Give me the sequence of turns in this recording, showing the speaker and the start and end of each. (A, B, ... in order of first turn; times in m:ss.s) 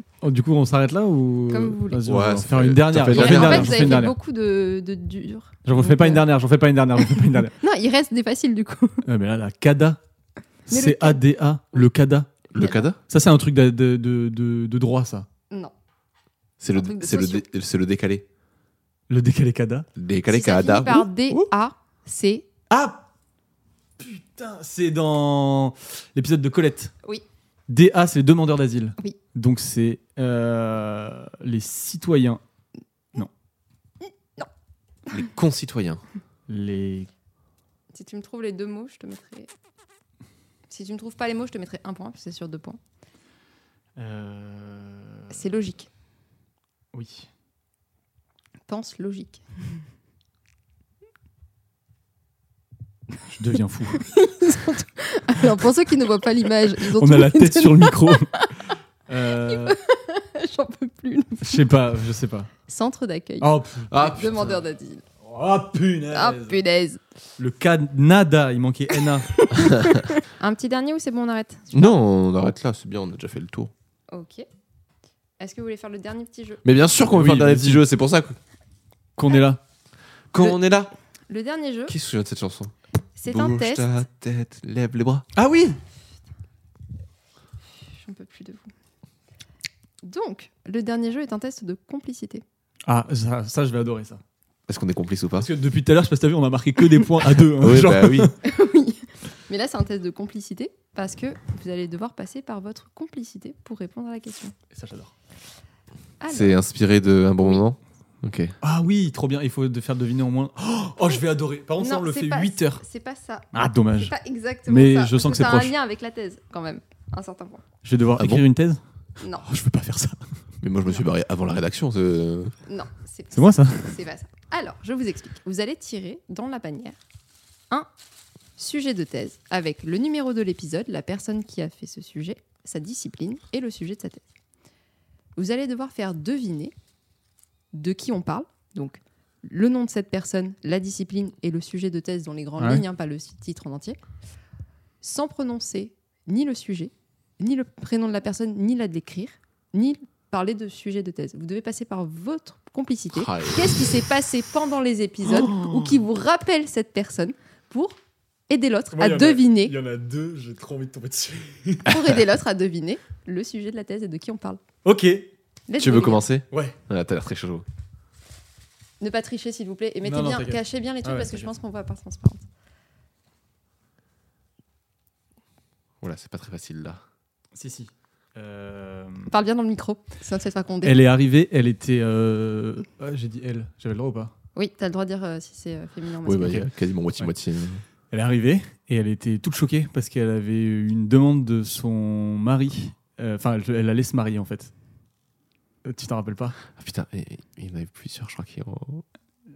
0:00.2-0:04.1 A
0:01.5-0:02.0 B
0:02.0-0:04.1 C
0:03.1-0:06.2 B
0:05.6-0:07.5 A
0:07.6-0:09.0 B
0:09.0-0:10.0 A
0:10.7-0:12.4 A
0:10.7-0:11.2 B
0:12.5-0:13.0 C
0:12.5-0:12.9 B
0:13.1-0:15.3 A
0:16.6-0:18.2 C
0:16.7-0:17.4 B
0:19.1-0:19.9 A
0:20.0-0:21.1 C
0:20.3-0:22.5 B
0:22.7-0:23.0 A
0:24.0-0:26.9 A
0:27.7-0:32.4 A
0:35.1-0:36.0 C
0:36.5-0:37.1 A
0:37.9-0:39.5 B
0:40.7-0:42.8 B
0:44.0-0:45.4 A
0:45.3-0:45.9 B
0:46.9-0:47.3 A
0:48.7-0:49.8 B
0:53.3-0:54.1 A
0:54.0-0:58.5 B
0:56.8-0:58.5 A
0:59.1-0:59.8 A
0:59.4-1:01.6 B
1:01.4-1:02.5 A
1:02.7-1:05.0 B
1:03.4-1:04.6 A
1:03.9-1:04.4 C
1:05.2-1:06.6 A
1:06.1-1:07.0 B
1:07.4-1:09.4 A
1:09.4-1:12.0 B
1:11.7-1:13.7 C
1:14.1-1:14.4 B
1:15.4-1:16.6 B
1:16.6-1:18.4 C
1:17.1-1:17.8 A
1:19.2-1:19.6 A
1:20.3-1:20.9 C
1:21.3-1:21.9 B
1:21.9-1:22.7 C
1:23.2-1:23.9 B
1:23.3-1:25.3 C
1:25.3-1:25.8 A
1:27.9-1:28.7 B
1:30.0-1:32.4 B
1:32.8-1:34.2 A
1:34.7-1:35.5 C
1:35.4-1:38.4 A
1:37.5-1:38.3 C
1:38.4-1:44.5 B
1:44.7-1:45.1 A
1:46.2-1:46.6 B
1:46.3-1:48.6 C
1:48.6-1:52.8 A
1:51.8-1:53.5 B
1:53.5-1:54.1 A
1:54.0-1:57.6 B
1:54.7-1:55.7 A
1:57.8-1:58.8 A
1:58.2-1:58.4 C
1:59.2-1:59.4 B
1:59.4-2:00.2 A
2:00.6-2:02.5 C
2:02.7-2:07.0 B
2:03.3-2:04.0 A
2:08.6-2:14.2 B
2:15.4-2:16.7 B
2:17.7-2:24.0 B
2:22.6-2:22.8 A
2:25.0-2:38.0 B
2:33.1-2:34.0 C
2:38.5-2:39.8 B
2:38.9-2:41.9 A
2:41.8-2:44.6 B
2:41.9-2:42.2 C
2:44.8-2:45.3 A
2:45.7-2:46.3 B
2:45.8-2:47.6 C
2:46.5-2:46.8 A
2:49.0-2:52.4 B
2:50.0-2:51.5 A
2:56.0-2:57.0 C
2:57.5-2:59.3 A
2:59.3-3:01.0 B
3:00.8-3:04.3 A
3:04.6-3:06.6 B
3:06.2-3:07.8 C
3:08.1-3:14.7 A
3:15.8-3:16.6 A
3:16.8-3:19.0 C